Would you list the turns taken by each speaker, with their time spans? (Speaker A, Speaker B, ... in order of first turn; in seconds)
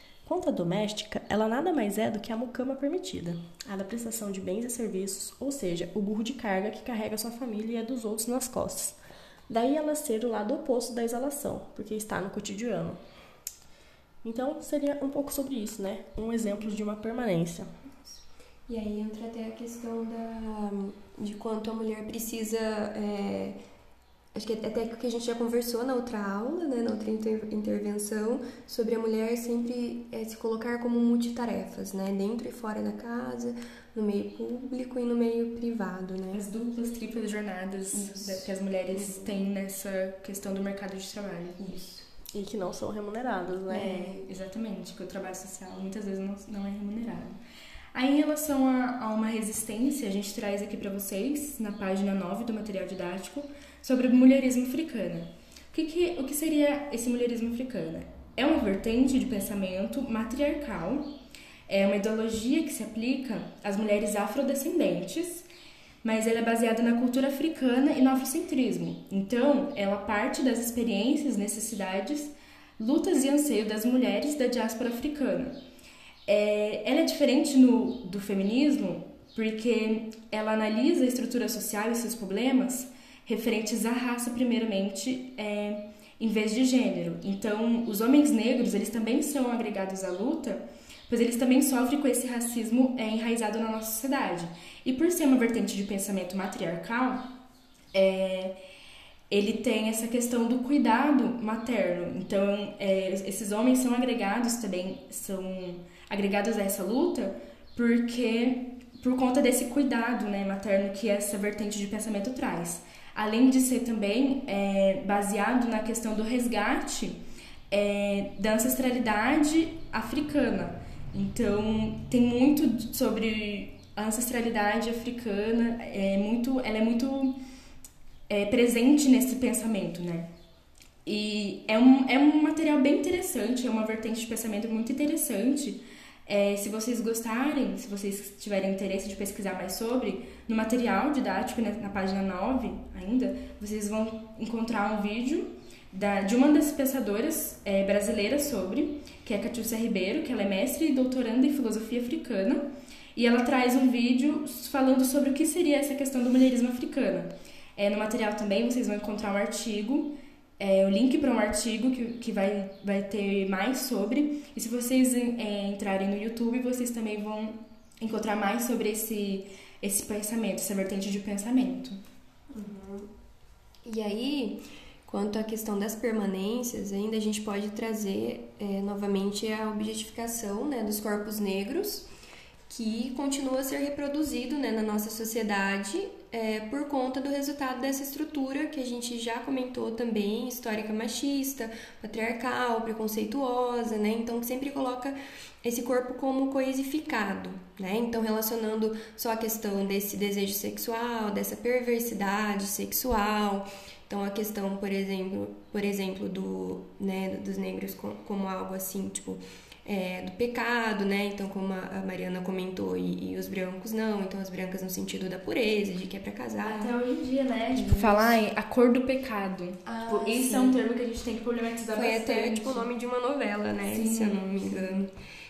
Speaker A: 0.2-8.9, 9.5-13.0, 14.2-17.7, 42.3-44.2
Speaker B: 18.7-23.6, 24.3-36.5, 37.9-39.4, 41.6-42.0, 43.7-44.3, 172.5-173.1, 173.8-182.1, 182.7-216.9, 217.7-218.4, 219.8-220.8, 221.9-225.1
Speaker C: 36.3-41.6, 44.2-47.4, 47.9-61.1, 61.7-65.5, 66.0-75.5, 76.2-97.3, 97.9-98.6, 99.3-117.2, 117.7-127.4, 128.3-130.3, 131.0-172.0, 216.6-222.9, 223.9-225.0